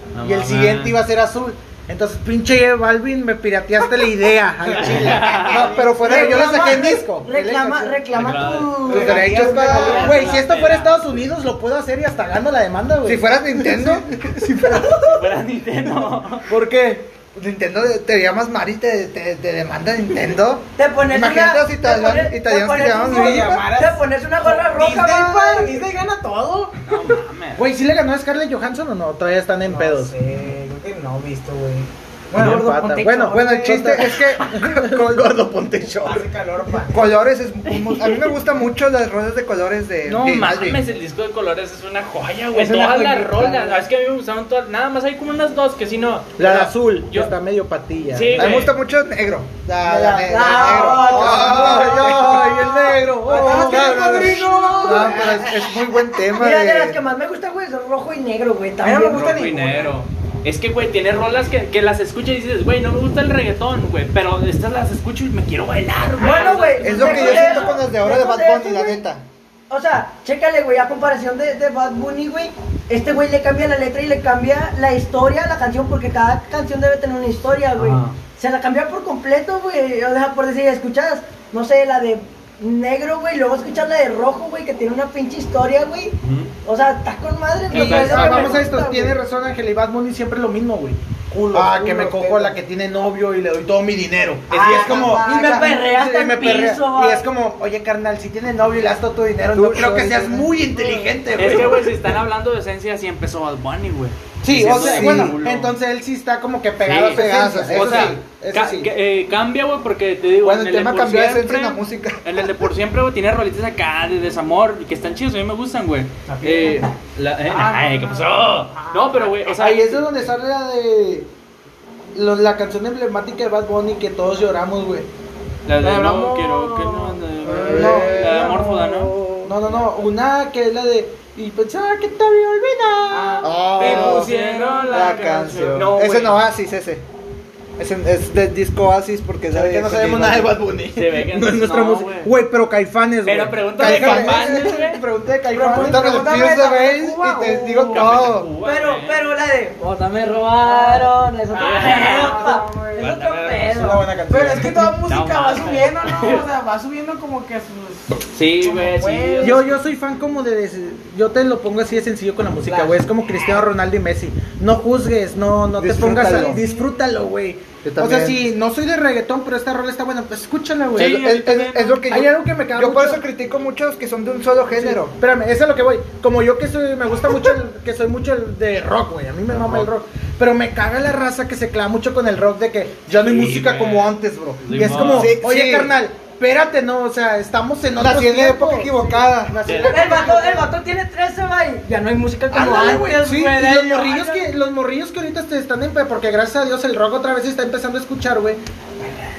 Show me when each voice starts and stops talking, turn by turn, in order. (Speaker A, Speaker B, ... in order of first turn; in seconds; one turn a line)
Speaker A: 0.1-1.0
Speaker B: 0.2-15.2
Speaker A: 4.7-5.7
Speaker C: 5.4-7.0
Speaker D: 5.5-5.9
Speaker E: 6.0-10.4
Speaker A: 8.1-8.8
Speaker D: 8.9-10.3
Speaker C: 9.1-10.0
Speaker A: 9.6-11.1
Speaker C: 13.1-15.0
Speaker A: 15.1-16.5
Speaker B: 16.5-17.1
Speaker C: 17.3-23.7
Speaker E: 20.8-25.9
Speaker D: 23.0-26.8
Speaker A: 26.9-27.6
Speaker B: 27.6-30.1
Speaker D: 29.7-32.8
Speaker B: 32.3-36.3
Speaker E: 32.4-33.5
Speaker C: 33.3-35.1
Speaker D: 36.0-37.1
Speaker C: 36.9-40.8
Speaker A: 37.7-38.4
Speaker A: 40.1-47.3
Speaker B: 42.6-43.7
Speaker B: 46.4-48.7
Speaker A: 48.1-48.7
Speaker C: 48.3-53.0
Speaker E: 49.9-55.4
Speaker B: 50.3-54.5
Speaker D: 50.7-51.9
Speaker D: 53.3-55.7
Speaker C: 53.5-57.0
Speaker E: 56.3-59.3
Speaker D: 58.8-60.0
Speaker A: 59.1-67.8
Speaker E: 66.2-69.0
Speaker D: 66.3-66.5
Speaker C: 66.8-69.2
Speaker E: 69.7-89.2
Speaker A: 77.8-78.2
Speaker A: 86.2-86.5
Speaker A: 87.7-88.6
Speaker B: 87.7-91.0
Speaker D: 91.3-92.6
Speaker B: 91.5-102.1
Speaker D: 94.5-95.7
Speaker E: 94.8-97.3
Speaker C: 99.5-100.5
Speaker D: 100.8-101.1
Speaker A: 101.4-105.8
Speaker B: 104.4-108.9
Speaker C: 104.6-105.3
Speaker D: 104.8-105.1
Speaker A: 106.8-120.3
Speaker C: 107.1-108.2
Speaker C: 110.4-112.6
Speaker D: 116.3-116.9
Speaker D: 117.5-119.2
Speaker B: 119.5-121.3
Speaker B: 122.2-125.1
Speaker A: 125.7-129.2
Speaker D: 125.8-127.1
Speaker C: 127.4-129.6
Speaker B: 127.6-128.7
Speaker D: 128.4-128.6
Speaker B: 129.4-133.9
Speaker D: 133.1-135.9
Speaker C: 133.4-134.3
Speaker A: 133.8-136.4
Speaker C: 134.9-137.0
Speaker C: 137.8-140.6
Speaker B: 139.5-146.6
Speaker A: 140.9-142.3
Speaker A: 143.2-145.0
Speaker C: 143.8-144.8
Speaker D: 145.5-148.0
Speaker C: 145.7-148.5
Speaker A: 147.9-149.2
Speaker E: 148.6-154.0
Speaker D: 150.7-153.1
Speaker A: 151.5-154.0
Speaker B: 153.7-154.9
Speaker D: 154.3-159.7
Speaker A: 155.1-156.5
Speaker A: 158.2-159.7
Speaker B: 159.4-171.2
Speaker D: 162.7-163.0
Speaker C: 165.8-166.6
Speaker D: 166.2-166.9
Speaker C: 167.8-168.4
Speaker A: 170.9-172.1
Speaker C: 171.0-175.2
Speaker B: 172.1-173.2
Speaker B: 174.7-190.7
Speaker A: 179.5-179.9
Speaker A: 183.1-185.3
Speaker C: 184.8-185.9
Speaker C: 188.0-189.6
Speaker A: 189.6-190.3
Speaker E: 189.8-194.5
Speaker B: 192.5-198.6